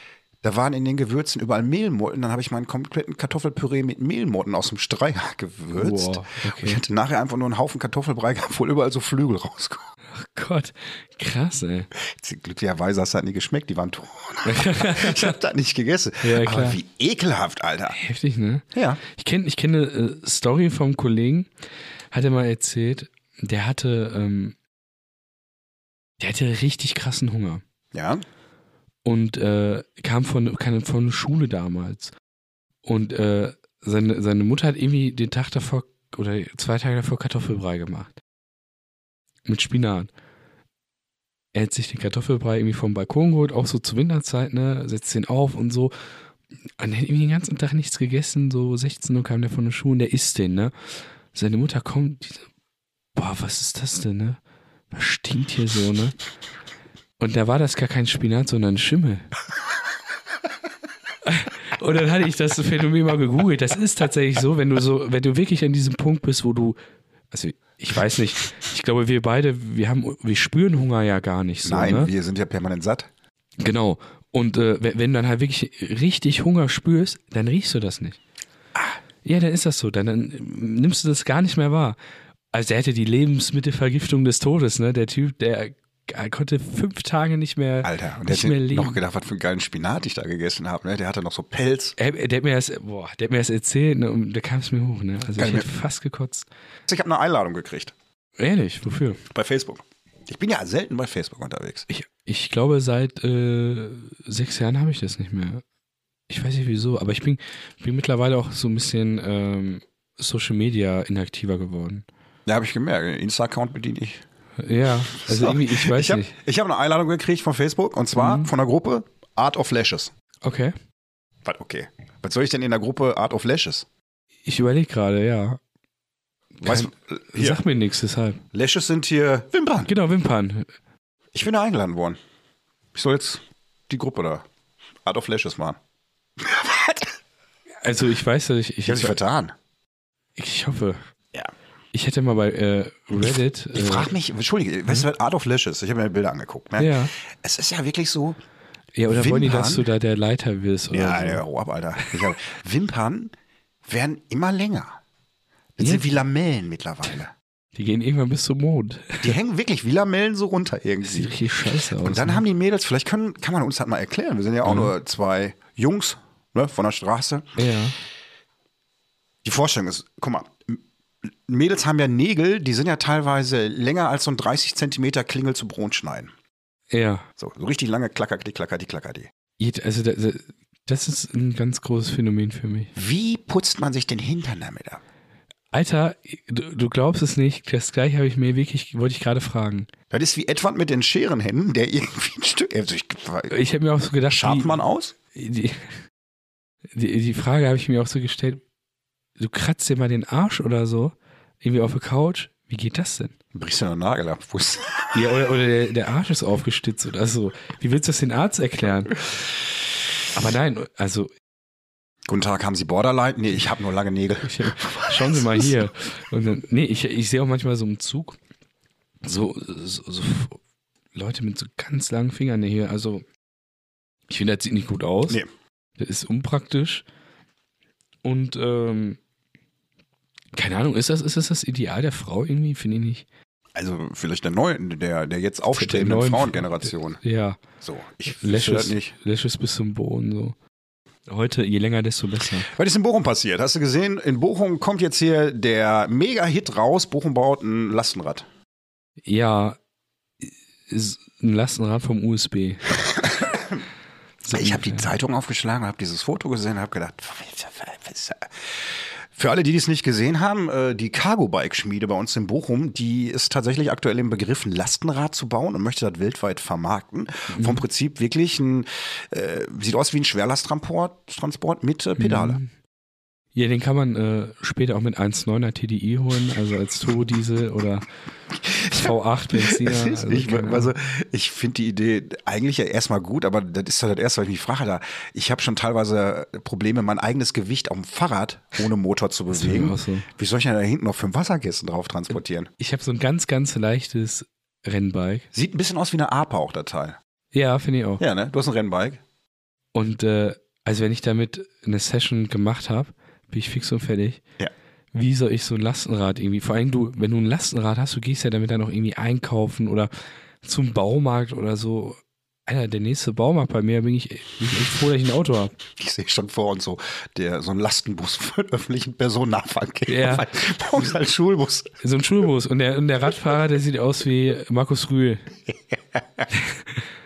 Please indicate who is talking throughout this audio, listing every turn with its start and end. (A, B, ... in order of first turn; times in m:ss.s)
0:00.4-0:09.9 A
0:05.7-0:06.8 B
0:10.1-0:11.9 B
0:11.9-0:18.0 A
0:14.4-0:15.4 B
0:16.2-0:16.8 B
0:17.9-0:21.5 B
0:18.7-0:19.0 A
0:22.1-0:24.6 B
0:26.2-0:27.6 B
0:27.9-0:28.2 A
0:29.0-0:32.1 B
0:32.8-0:38.1 B
0:39.4-0:40.1 B
0:41.5-0:45.9 B
0:46.8-0:50.7 B
0:51.3-0:52.4 B
0:53.1-0:54.4 B
0:54.9-0:56.2 B
0:57.2-0:59.3 B
1:01.2-1:06.8 B
1:07.3-1:12.1 B
1:11.6-1:13.1 A
1:13.6-1:18.2 B
1:19.2-1:22.0 B
1:22.5-1:29.0 B
1:27.8-1:31.9 A
1:32.0-1:36.5 B
1:35.4-1:35.7 A
1:36.9-1:37.9 A
1:38.4-1:39.2 B
1:39.3-1:41.9 A
1:41.9-1:45.6 B
1:46.3-1:52.0 B
1:52.4-1:54.2 A
1:54.6-1:56.3 B
1:55.1-2:00.1 A
1:58.1-1:58.5 B
2:00.4-2:00.7 B
2:01.4-2:03.8 A
2:04.4-2:05.6 B
2:06.6-2:08.4 B
2:06.6-2:07.6 A
2:08.5-2:09.9 A
2:09.8-2:10.7 B
2:11.3-2:12.2 A
2:12.9-2:14.4 A
2:15.0-2:15.8 A
2:16.4-2:17.2 A
2:17.8-2:19.2 B
2:18.8-2:19.5 A
2:20.4-2:21.0 B
2:21.9-2:24.1 B
2:23.2-2:28.4 A
2:26.8-2:27.1 B
2:28.9-2:31.4 B
2:29.1-2:29.9 A
2:30.9-2:33.3 A
2:32.0-2:32.3 B
2:33.8-2:35.0 A
2:35.8-2:37.3 A
2:35.8-2:36.1 B
2:37.7-2:39.3 B
2:39.2-2:41.4 A
2:41.0-2:42.4 B
2:42.0-2:47.6 A
2:44.6-2:44.9 B
2:47.6-2:48.0 B
2:49.4-2:50.8 A
2:51.4-2:56.3 A
2:56.9-2:57.2 B
2:57.4-2:59.3 A
2:59.6-3:02.9 B
3:02.9-3:05.0 A
3:05.7-3:09.9 B
3:10.1-3:13.5 A
3:13.5-3:14.8 B
3:14.3-3:15.1 A
3:15.3-3:16.0 B
3:16.9-3:18.6 B
3:19.4-3:23.3 B
3:23.5-3:25.3 A
3:25.1-3:29.2 B
3:30.3-3:31.3 B
3:32.3-3:35.8 A
3:34.4-3:38.4 B
3:39.2-3:40.6 B
3:41.1-3:43.2 B
3:44.3-3:45.4 B
3:46.0-3:47.0 B
3:48.2-3:49.2 B
3:50.5-3:53.2 B
3:53.7-3:57.2 A
3:55.7-3:57.6 B
3:57.8-3:59.1 A
3:58.3-4:00.5 B
4:01.3-4:02.7 B
4:02.6-4:08.5 A
4:09.2-4:09.8 B
4:10.4-4:13.0 B
4:13.2-4:13.8 A
4:14.4-4:15.1 B
4:14.5-4:32.6 A
4:27.5-4:27.8 B
4:32.2-4:32.7 B
4:33.5-4:38.0 B
4:38.6-4:52.7 A
4:38.8-4:40.9 B
4:49.5-4:50.2 B
4:52.8-4:55.5 B
4:55.5-4:57.2 A
4:57.5-4:58.2 B
4:58.2-4:59.2 A
4:59.9-5:04.4 B
5:05.1-5:10.1 B
5:10.6-5:15.7 B
5:15.9-5:22.0 A
5:20.1-5:20.5 B
5:22.0-5:25.5 B
5:25.9-5:26.4 A
5:26.5-5:27.0 B